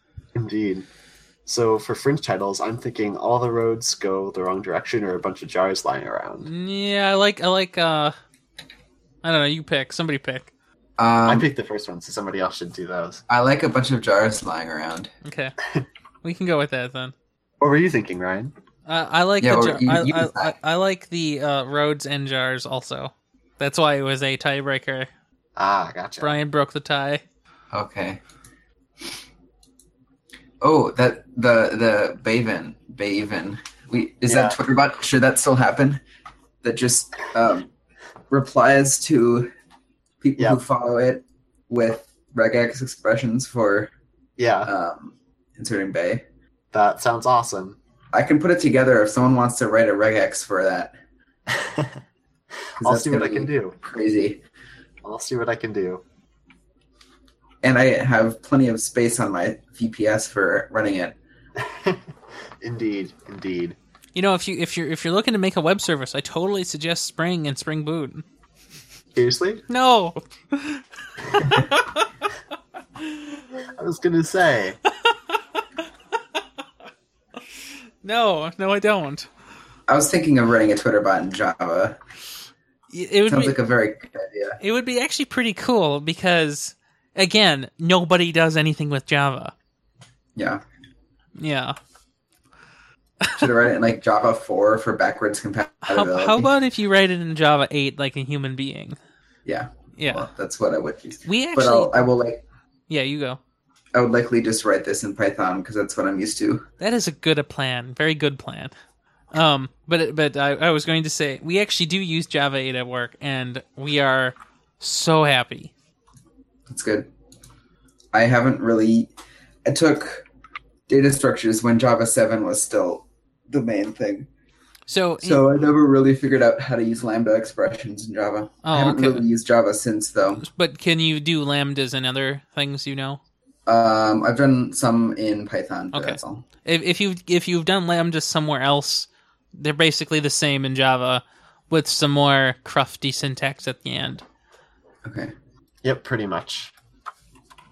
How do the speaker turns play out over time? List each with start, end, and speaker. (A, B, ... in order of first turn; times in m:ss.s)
0:00.3-0:00.9 A
0:01.4-0:06.5 A
0:06.4-0:08.2 B
0:09.2-0:10.5 B
0:11.0-0:11.5 C
0:11.2-0:13.2 A
0:13.3-0:15.1 C
0:15.2-0:15.6 B
0:16.2-0:17.1 B
0:17.6-0:18.5 A
0:18.8-0:25.1 B
0:19.4-0:20.5 C
0:25.6-0:26.4 A
0:26.2-0:27.2 B
0:27.7-0:28.2 C
0:30.6-0:36.0 C
0:34.3-0:34.6 A
0:36.6-0:37.7 C
0:38.3-0:39.5 C
0:40.2-0:43.9 C
0:44.4-0:44.7 A
0:44.6-0:46.2 C
0:46.7-0:47.8 A
0:48.1-0:50.9 C
0:51.5-0:52.0 A
0:52.8-0:53.8 A
0:52.8-0:54.4 C
0:55.0-0:56.0 A
0:57.6-1:01.2 C
1:01.6-1:02.0 A
1:02.6-1:03.8 A
1:04.1-1:08.2 B
1:09.1-1:09.6 A
1:09.7-1:12.1 B
1:13.8-1:14.8 A
1:15.0-1:15.6 B
1:18.0-1:19.3 B
1:19.9-1:22.0 C
1:22.9-1:23.6 B
1:23.3-1:24.6 C
1:24.6-1:29.5 B
1:30.4-1:30.6 C
1:31.4-1:31.8 B
1:33.4-1:36.5 C
1:35.8-1:39.0 B
1:39.4-1:42.4 C
1:40.0-1:40.3 B
1:41.2-1:42.1 B
1:42.9-1:43.4 B
1:43.9-1:46.6 C
1:46.8-1:48.7 B
1:49.3-1:55.7 B
1:56.7-1:57.1 C
1:58.1-1:59.1 C
1:59.6-2:00.2 C
2:00.9-2:04.3 C
2:04.9-2:05.4 B
2:05.2-2:10.4 C
2:08.6-2:09.2 B
2:10.4-2:13.2 B
2:13.6-2:16.4 C
2:15.9-2:24.2 B
2:25.0-2:25.3 C
2:25.8-2:26.7 A